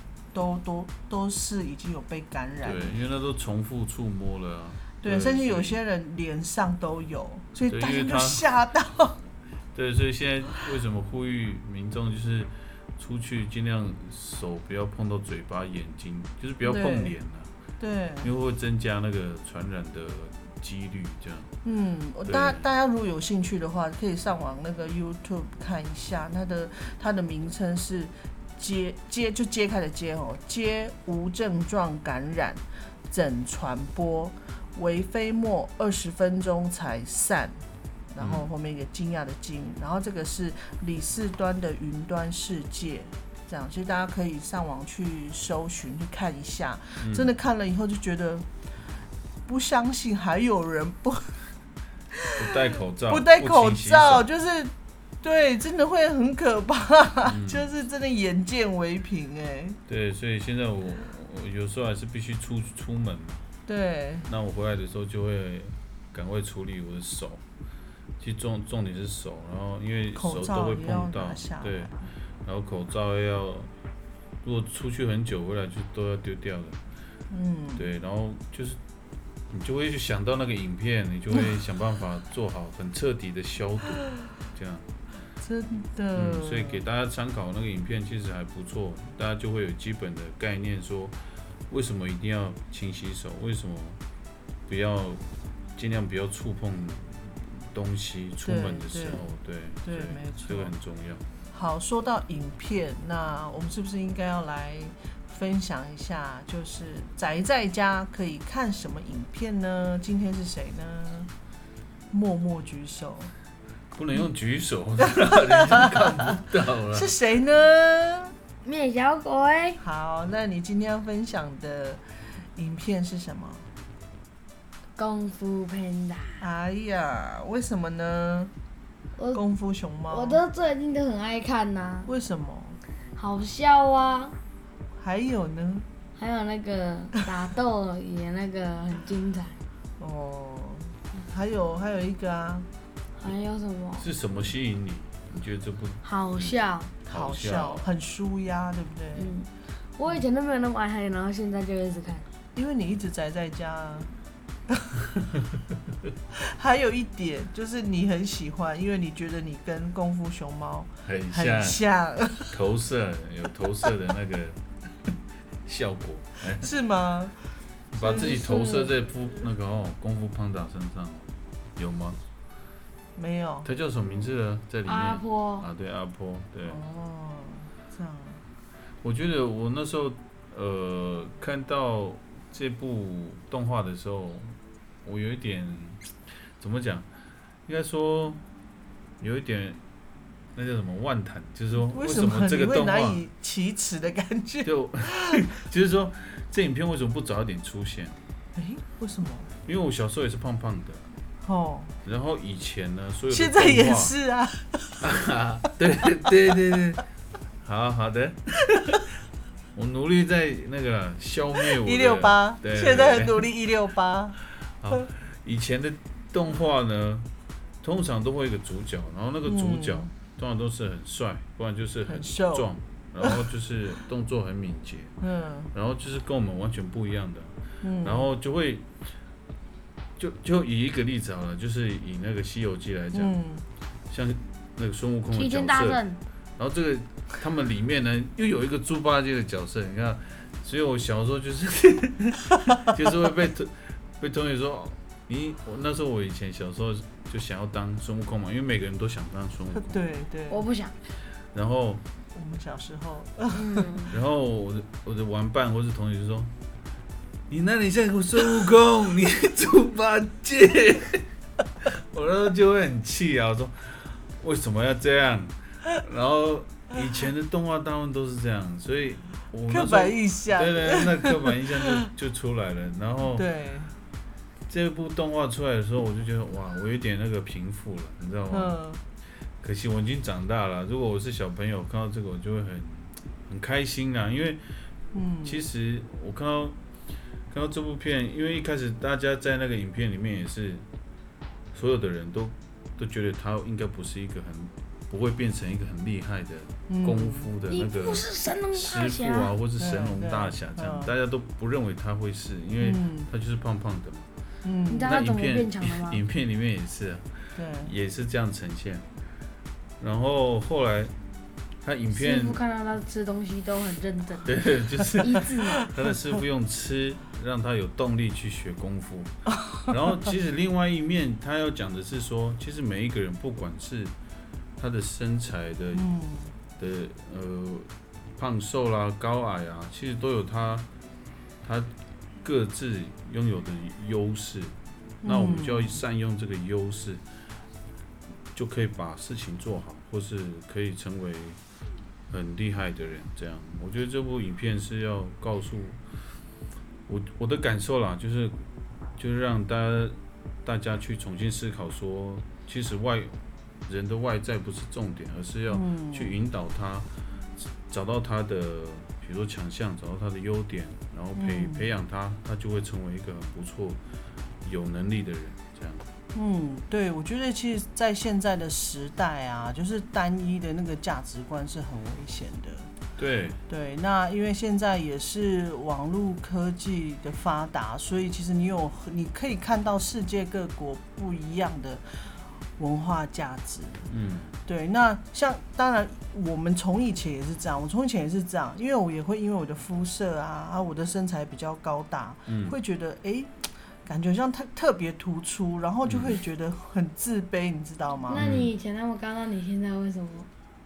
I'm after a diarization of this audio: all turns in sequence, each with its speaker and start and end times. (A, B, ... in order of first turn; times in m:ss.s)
0:00.3-0:02.9 A
0:02.6-0:05.8 B
0:05.0-0:09.2 A
0:07.7-0:08.4 B
0:09.7-0:17.5 B
0:16.6-0:17.1 A
0:17.8-0:18.3 A
0:18.2-0:21.6 B
0:21.6-0:37.6 A
0:22.3-0:22.7 B
0:38.1-0:48.5 A
0:38.2-0:38.5 B
0:47.0-0:47.3 B
0:49.5-0:51.4 A
0:52.4-0:54.3 B
0:53.1-0:59.8 A
0:57.2-0:57.7 B
0:59.9-1:03.4 B
1:03.7-1:04.3 A
1:04.3-1:07.4 B
1:08.2-1:13.7 B
1:10.2-1:12.0 A
1:14.4-1:16.8 B
1:17.3-1:17.8 A
1:17.8-1:18.8 B
1:19.5-1:24.9 B
1:25.4-1:26.8 A
1:26.2-1:34.0 B
1:34.7-1:41.2 B
1:38.4-1:39.3 A
1:39.8-1:40.7 A
1:41.5-1:51.3 A
1:52.1-1:53.3 A
1:53.9-1:57.1 B
1:55.5-1:56.3 A
1:56.9-1:58.3 A
1:58.6-1:59.8 C
1:59.8-2:02.0 A
2:02.6-2:03.7 A
2:05.0-2:06.4 C
2:06.4-2:08.5 A
2:09.2-2:09.4 C
2:09.3-2:10.4 A
2:10.1-2:12.1 C
2:12.1-2:12.8 A
2:13.2-2:14.4 C
2:15.0-2:15.9 A
2:16.2-2:19.6 C
2:20.0-2:22.7 A
2:23.2-2:24.1 C
2:24.0-2:27.9 B
2:26.0-2:26.9 C
2:27.1-2:29.3 A
2:29.2-2:32.3 C
2:32.6-2:34.1 A
2:34.7-2:35.0 A
2:36.3-2:42.6 A
2:41.0-2:41.8 B
2:42.5-2:46.7 B
2:46.5-2:48.9 A
2:47.9-2:52.2 B
2:48.0-2:48.9 C
2:53.2-2:53.7 A
2:53.6-2:56.8 B
2:54.9-2:55.7 C
2:56.7-2:58.4 A
2:59.0-3:07.1 B
3:07.7-3:08.4 B
3:09.2-3:09.8 B
3:10.5-3:13.2 B
3:11.8-3:15.4 A
3:14.6-3:18.2 B
3:18.6-3:19.5 A
3:19.6-3:21.1 B
3:21.4-3:22.0 A
3:22.0-3:24.1 B
3:23.3-3:25.0 A
3:25.0-3:27.0 B
3:27.6-3:29.0 B
3:29.7-3:33.4 B
3:31.7-3:34.4 A
3:34.7-3:37.3 B
3:37.8-3:45.2 B
3:39.5-3:40.1 A
3:42.1-3:42.7 A
3:45.2-3:45.7 A
3:45.7-3:49.1 B
3:47.8-3:48.3 A
3:50.2-3:53.3 B
3:53.1-3:53.6 A
3:54.1-3:56.0 B
3:55.3-3:56.2 C
3:56.6-4:10.0 B
4:09.8-4:10.6 A
4:10.5-4:11.0 C
4:11.5-4:12.0 B
4:12.3-4:14.1 A
4:13.5-4:14.1 C
4:14.1-4:16.5 B
4:17.5-4:21.3 B
4:21.8-4:33.4 B
4:29.7-4:31.8 A
4:33.3-4:33.9 A
4:34.7-4:38.8 B
4:38.5-4:39.0 A
4:39.6-4:44.8 B
4:45.1-4:45.6 A
4:45.4-4:46.8 B
4:47.5-4:50.9 B
4:51.7-5:04.3 B
4:56.9-4:57.5 A
4:57.7-4:59.5 C
4:59.8-5:01.1 A
5:02.8-5:03.3 A
5:04.6-5:05.1 A
5:04.9-5:06.2 C
5:05.0-5:09.1 B
5:07.6-5:07.9 A
5:10.0-5:11.1 B
5:11.8-5:12.6 B
5:12.1-5:14.7 C
5:14.4-5:24.1 B
5:15.2-5:15.9 C
5:24.8-5:26.1 B
5:25.9-5:26.5 A
5:26.8-5:30.9 B
5:31.6-5:31.9 B
5:32.4-5:37.2 B
5:35.2-5:36.0 A
5:38.5-5:41.6 B
5:42.3-5:46.2 B
5:47.1-5:48.6 B
5:49.2-6:04.0 B
5:55.7-5:56.4 A
6:01.4-6:01.9 A
6:04.6-6:06.1 B
6:06.3-6:12.9 A
6:13.2-6:13.6 B
6:13.7-6:24.1 A
6:24.1-6:24.6 B
6:24.7-6:38.4 A
6:32.5-6:32.8 B
6:36.1-6:36.4 B
6:38.3-6:40.5 C
6:38.3-6:38.7 B